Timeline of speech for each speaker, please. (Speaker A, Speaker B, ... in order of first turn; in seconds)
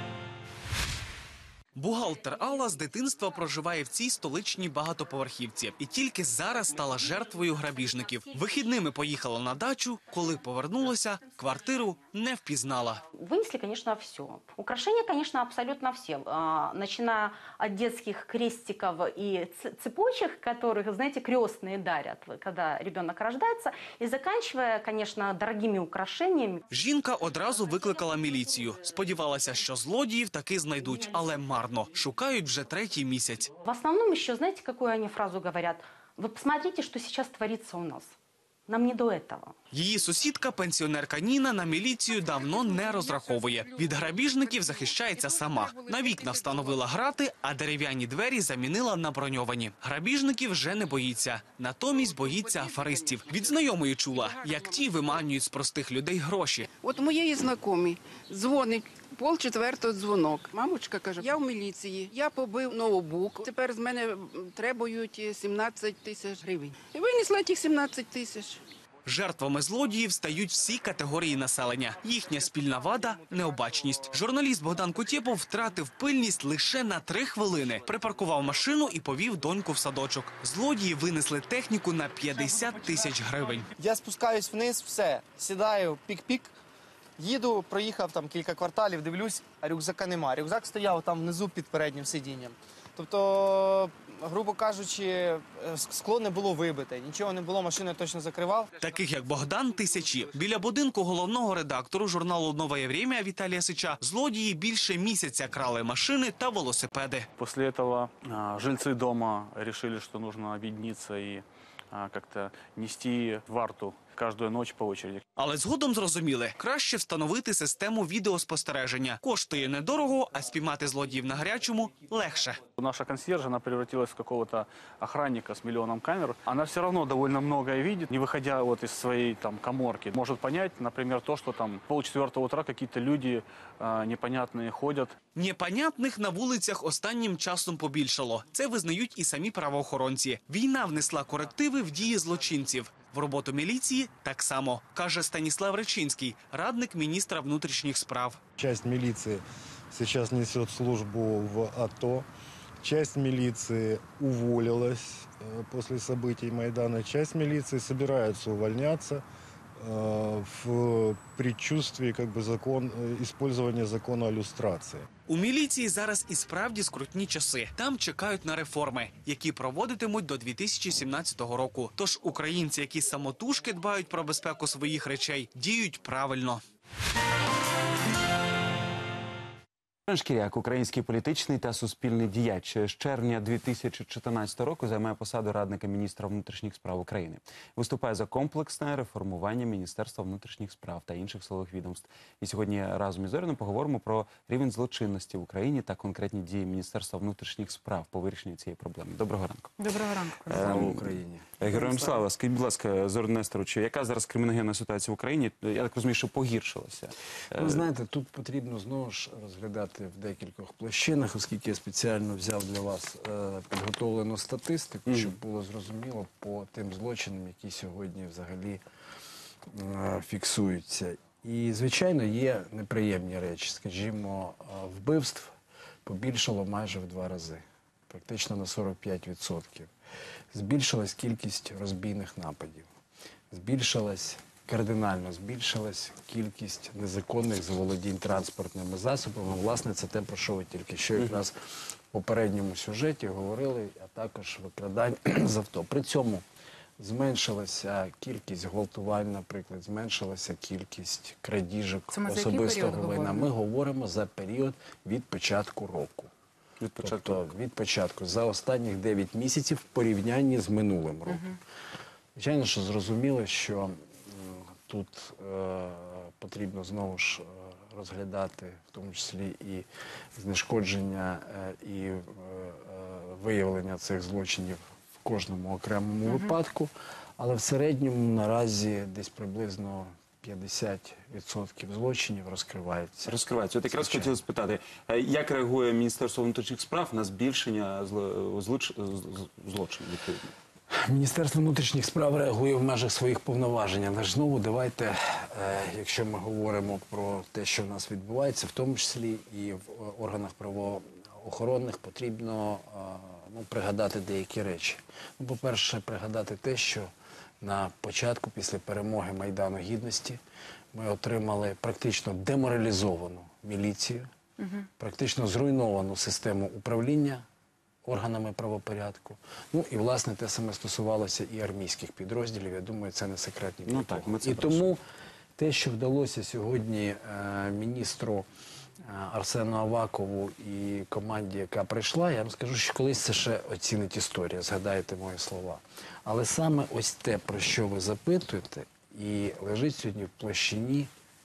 Speaker A: 1.8-13.0, 26.7-33.5, 39.7-56.7, 69.0-83.7, 98.8-107.3, 115.4-122.6, 135.3-148.4, 165.3-176.6
Speaker B: 13.1-26.6, 33.6-38.1, 38.7-39.5
Speaker C: 42.1-46.8, 52.0-55.2, 56.8-68.6
Speaker D: 83.8-86.5, 87.2-98.7
Speaker E: 107.4-115.2, 122.7-135.2
Speaker F: 148.6-152.3, 152.8-159.2, 159.8-165.1
Speaker G: 180.1-199.7, 200.5-207.8, 256.8-257.4, 283.2-290.5, 323.8-324.9
Speaker H: 199.8-200.7, 201.7-202.0, 252.1-253.5
Speaker I: 200.5-201.5, 207.6-218.8, 219.7-225.5, 226.1-229.9, 230.5-232.9, 233.5-241.5, 242.1-246.4, 247.0-256.3, 257.0-261.5, 262.4-283.3, 283.9-284.3, 290.9-307.1, 307.6-310.4, 310.9-314.3, 315.0-317.4, 318.0-325.0, 325.6-328.4, 329.1-341.1